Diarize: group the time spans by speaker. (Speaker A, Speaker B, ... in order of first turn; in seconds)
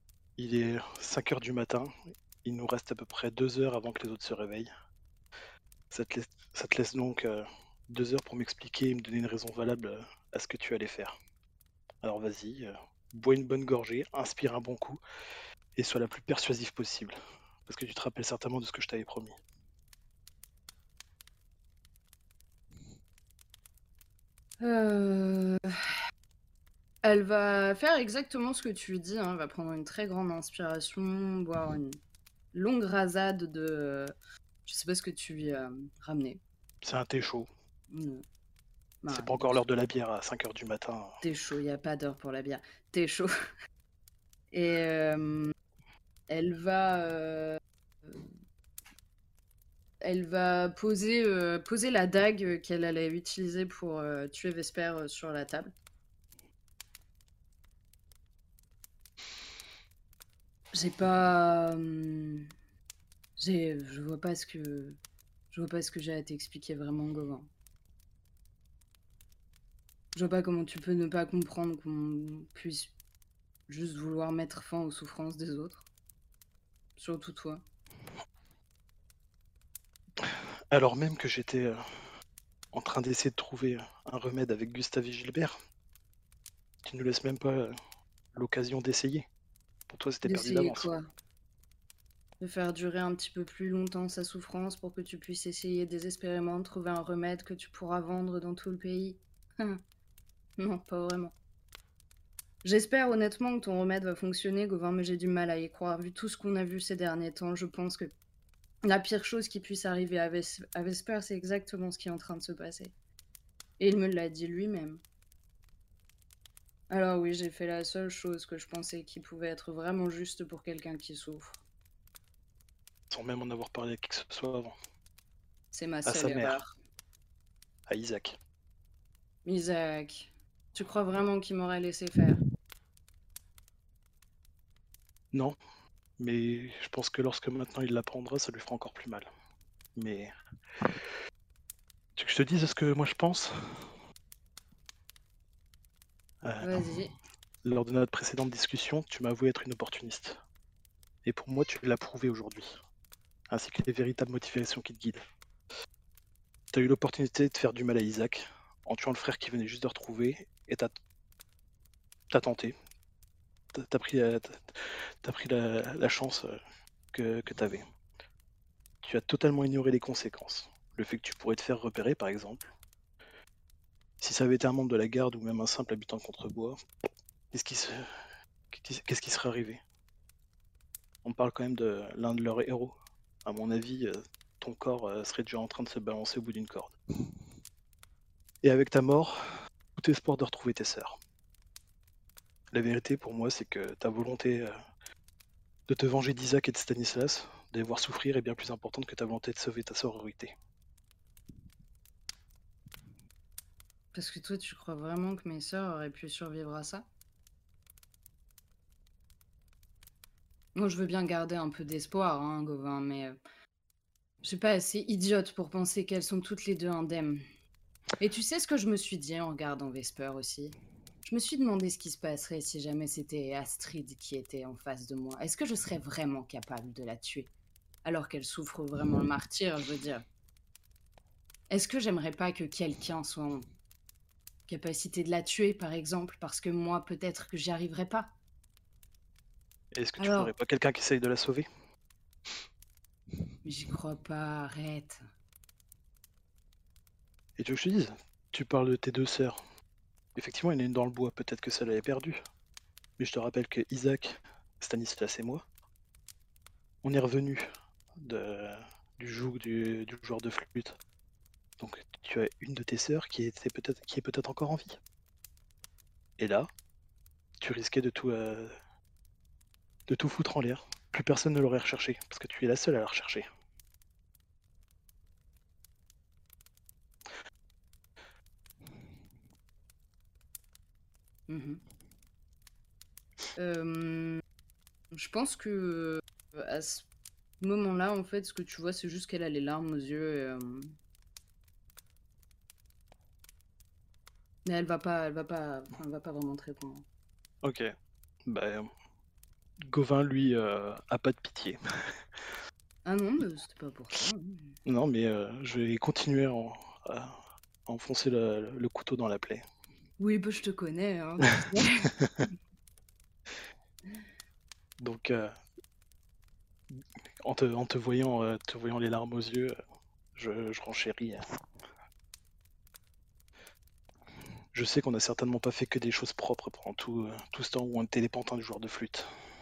Speaker A: 0.4-4.7, 5.9-11.2, 12.0-15.0, 15.7-19.4, 36.8-37.5, 39.1-41.2, 80.2-82.1, 82.7-85.5, 86.8-87.8, 88.3-89.2, 89.9-90.9, 123.1-124.7, 126.0-126.6, 127.9-128.4, 136.2-139.3, 139.9-140.3, 142.2-143.9, 146.4-146.9, 147.6-150.4, 151.2-152.8, 153.5-155.2, 156.7-160.9, 162.3-162.7, 163.7-166.6, 167.1-167.8, 169.0-172.7, 174.2-176.8, 177.5-178.2, 178.7-179.8, 181.2-186.9, 188.6-189.4, 189.9-191.2, 192.7-194.7, 195.9-200.5, 239.9-241.7, 247.6-249.6, 250.3-252.4, 253.2-255.6, 257.0-257.7, 258.2-261.0, 261.8-265.0, 266.4-266.7, 267.6-268.7, 270.1-273.5, 297.6-297.9, 298.4-298.9, 299.9-301.8, 304.9-307.3, 307.9-309.6, 315.0-315.5, 316.9-319.8, 320.4-321.4, 324.7-329.3
Speaker B: 24.6-25.7, 27.0-32.0, 32.5-34.1, 34.6-36.4, 37.9-38.2, 39.0-39.6, 41.2-43.3, 44.5-45.5, 46.3-48.3, 50.0-55.7, 60.7-62.5, 63.4-65.0, 65.5-67.5, 70.1-72.9, 73.7-75.8, 77.0-77.6, 90.2-91.0, 92.4-99.8, 100.6-101.3, 102.6-108.1, 108.8-112.9, 113.8-115.0, 116.9-121.6, 125.7-126.7, 129.4-132.4, 146.6-147.1, 204.1-207.1, 210.7-213.4, 214.4-217.4, 218.2-227.5, 228.0-230.2, 231.7-233.7, 234.7-238.3, 240.2-240.5, 243.6-245.2, 281.5-281.8, 283.6-284.4, 285.1-287.1, 287.6-290.9, 294.6-297.1, 303.0-304.7, 310.2-312.1